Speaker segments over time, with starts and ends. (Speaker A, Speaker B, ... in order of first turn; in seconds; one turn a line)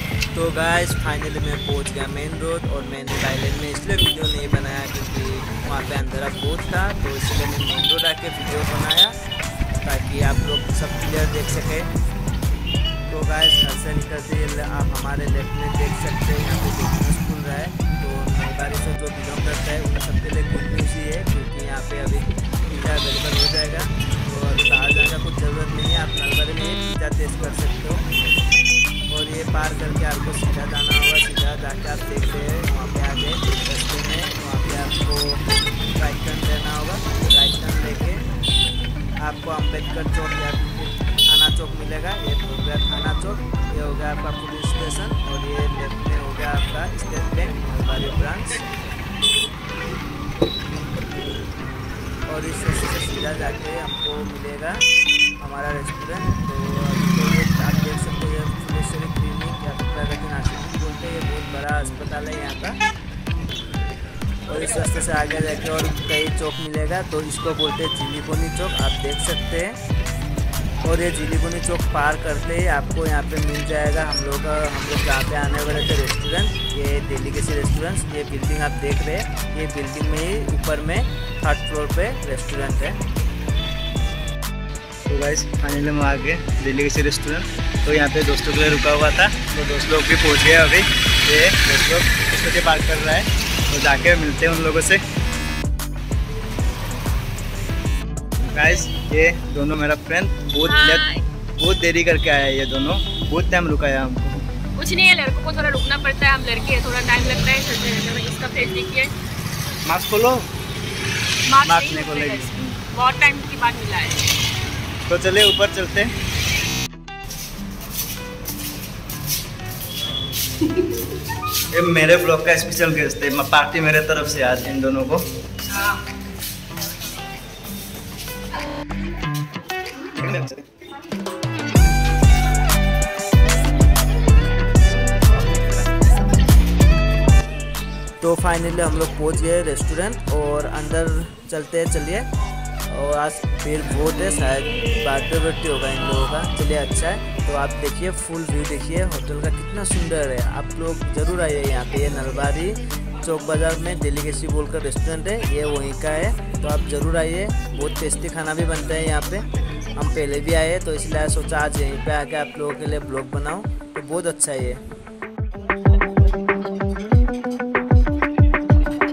Speaker A: 0.3-9.2
Speaker A: 9.8-11.9
Speaker A: 13.1-28.0
Speaker A: 29.1-35.4
Speaker A: 36.0-38.3
Speaker A: 39.2-48.6
Speaker A: 52.3-54.9
Speaker A: 55.4-62.8
Speaker A: 64.8-69.8
Speaker A: 70.8-83.0
Speaker A: 85.1-95.0
Speaker A: 98.5-104.5
Speaker B: 100.6-101.2
Speaker B: 104.8-109.1
Speaker A: 109.8-110.5
Speaker B: 111.5-114.3
Speaker A: 111.6-112.8
Speaker A: 115.1-116.1
Speaker A: 121.7-125.3
Speaker B: 125.7-126.0
Speaker A: 130.2-130.6
Speaker A: 138.2-142.3
Speaker A: 142.9-164.8